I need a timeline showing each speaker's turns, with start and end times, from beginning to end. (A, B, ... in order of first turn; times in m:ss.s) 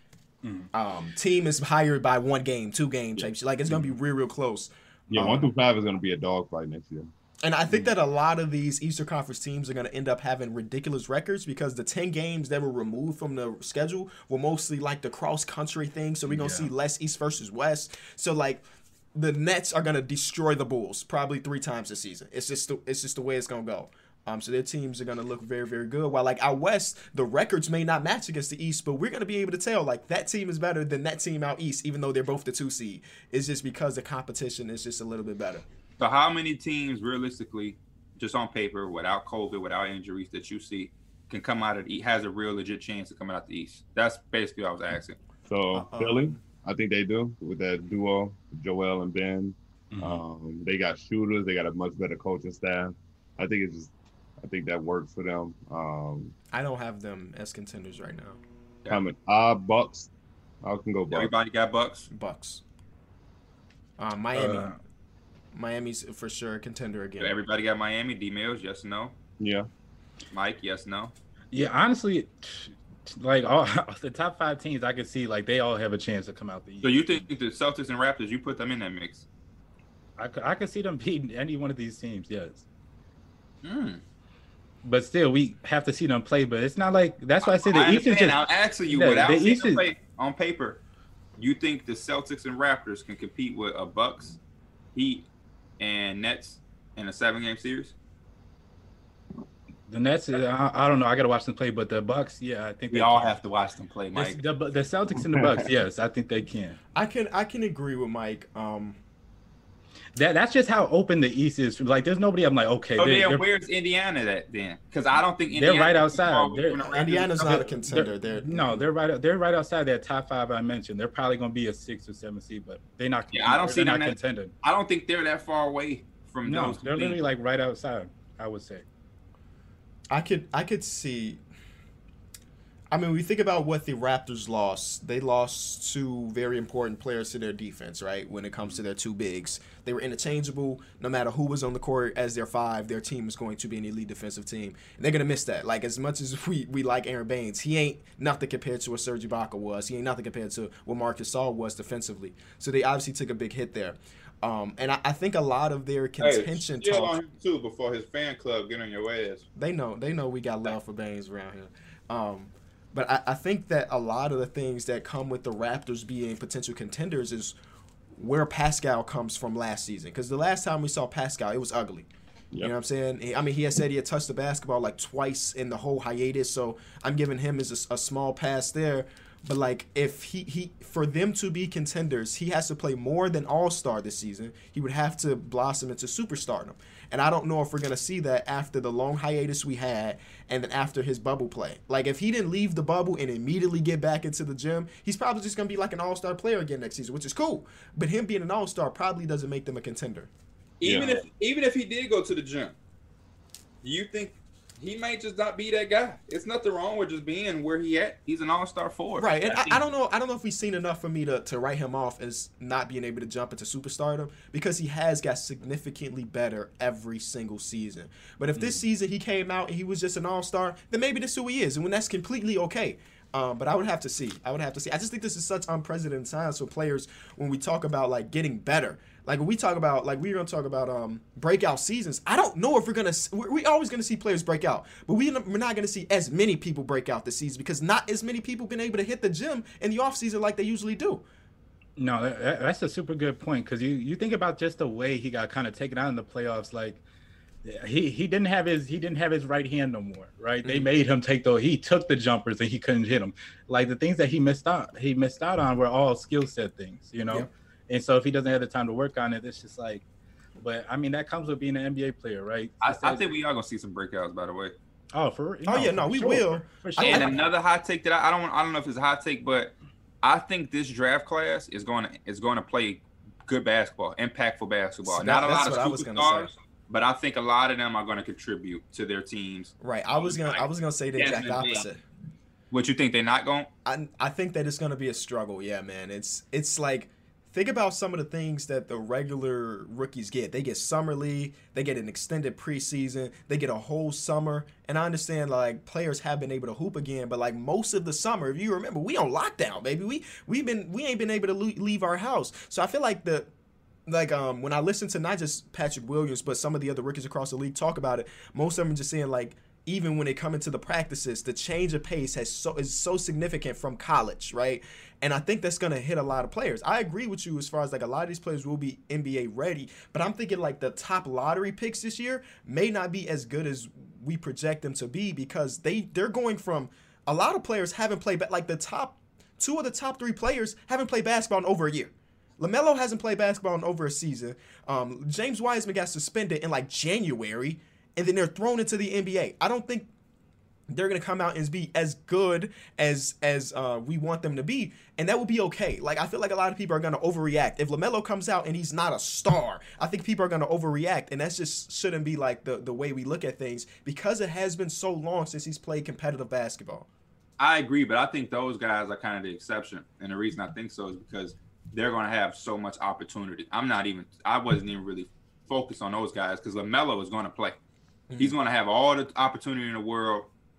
0:00.4-0:00.7 A
0:00.7-0:05.5 B
0:03.2-0:03.9 C
0:05.1-0:07.1 C
0:07.4-0:35.6 B
0:16.3-0:16.7 A
0:36.0-0:45.2 D
0:45.5-0:56.4 C
0:45.8-0:46.4 B
0:49.9-0:50.2 A
0:56.5-0:58.4 B
0:58.9-1:00.1 C
1:00.6-1:01.3 C
1:01.1-1:02.1 D
1:02.1-1:02.6 B
1:04.0-1:04.7 B
1:04.3-1:04.8 A
1:05.5-1:07.4 B
1:07.2-1:09.1 D
1:09.4-1:09.7 C
1:10.3-1:11.1 D
1:11.5-1:17.2 A
1:16.8-1:19.3 D
1:20.2-1:22.6 A
1:23.6-1:24.0 D
1:24.8-1:29.9 A
1:27.4-1:30.8 D
1:31.4-1:34.4 D
1:34.9-1:35.3 D
1:35.8-1:37.9 D
1:39.9-1:43.4 A
1:42.9-1:44.4 D
1:44.1-1:46.8 A
1:45.2-1:45.6 C
1:46.9-1:49.0 B
1:50.1-1:53.4 A
1:53.0-1:57.4 D
1:55.5-2:04.5 A
1:56.9-1:58.8 B
2:03.3-2:07.2 D
2:06.4-2:08.8 A
2:10.1-2:11.4 B
2:12.9-2:37.2 B
2:36.2-2:39.5 D
2:39.6-2:47.6 B
2:48.1-2:52.0 B
2:52.6-3:20.3 B
3:20.8-3:22.8 D
3:20.8-3:21.2 C
3:23.8-3:29.8 D
3:29.2-4:01.2 B
3:38.6-3:38.8 A
4:02.0-4:07.0 A
4:07.6-4:20.0 A
4:10.6-4:10.9 B
4:20.6-4:23.2 A
4:22.8-4:24.7 D
4:25.1-4:27.5 A
4:25.6-4:27.4 B
4:27.0-4:41.9 D
4:35.1-4:36.5 B
4:39.8-4:42.0 B
4:42.7-4:43.7 D
4:43.9-5:03.5 B
5:04.1-5:40.1 B
5:40.9-5:57.1 B
5:57.6-6:07.8 D
6:08.3-6:08.6 B
6:08.4-6:10.5 D